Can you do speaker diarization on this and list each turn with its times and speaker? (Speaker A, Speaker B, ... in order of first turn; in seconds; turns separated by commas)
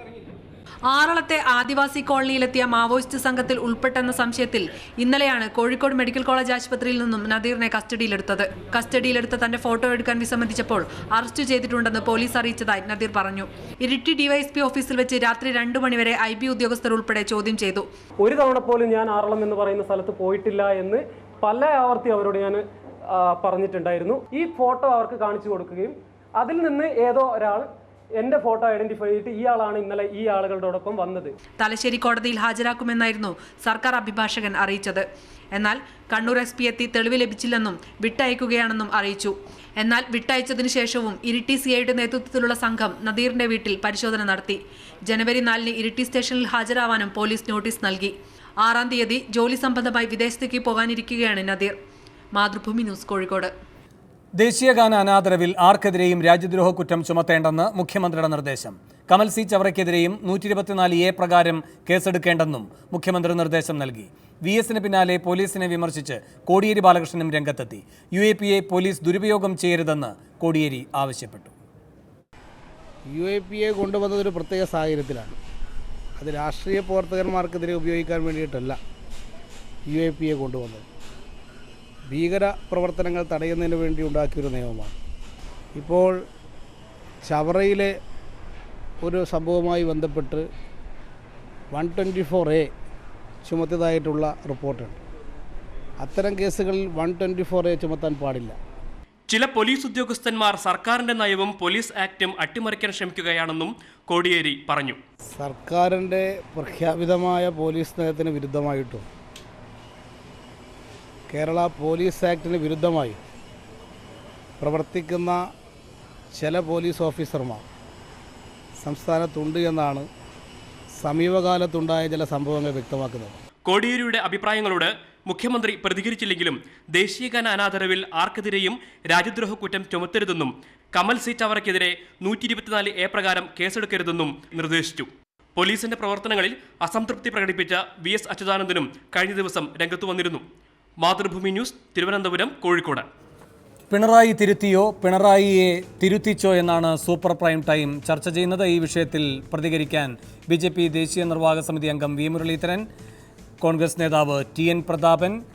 Speaker A: 0.9-17.9, Speaker B: 18.2-31.3, Speaker A: 31.5-51.7, Speaker A: 52.3-53.5, Speaker C: 54.4-71.5, Speaker D: 73.1-75.3, Speaker D: 76.2-78.8, Speaker D: 79.9-80.8, Speaker D: 82.1-85.0, Speaker D: 85.7-86.2, Speaker D: 87.2-87.9, Speaker D: 89.0-90.5, Speaker D: 91.7-92.7, Speaker D: 93.4-95.0, Speaker D: 96.0-98.5, Speaker E: 99.3-105.0, Speaker D: 105.3-109.0, Speaker D: 111.3-113.2, Speaker D: 114.6-115.4, Speaker D: 116.3-117.6, Speaker D: 118.8-120.1, Speaker D: 121.0-123.4, Speaker E: 123.7-140.4, Speaker E: 141.0-143.1, Speaker C: 143.9-152.9, Speaker C: 153.6-155.4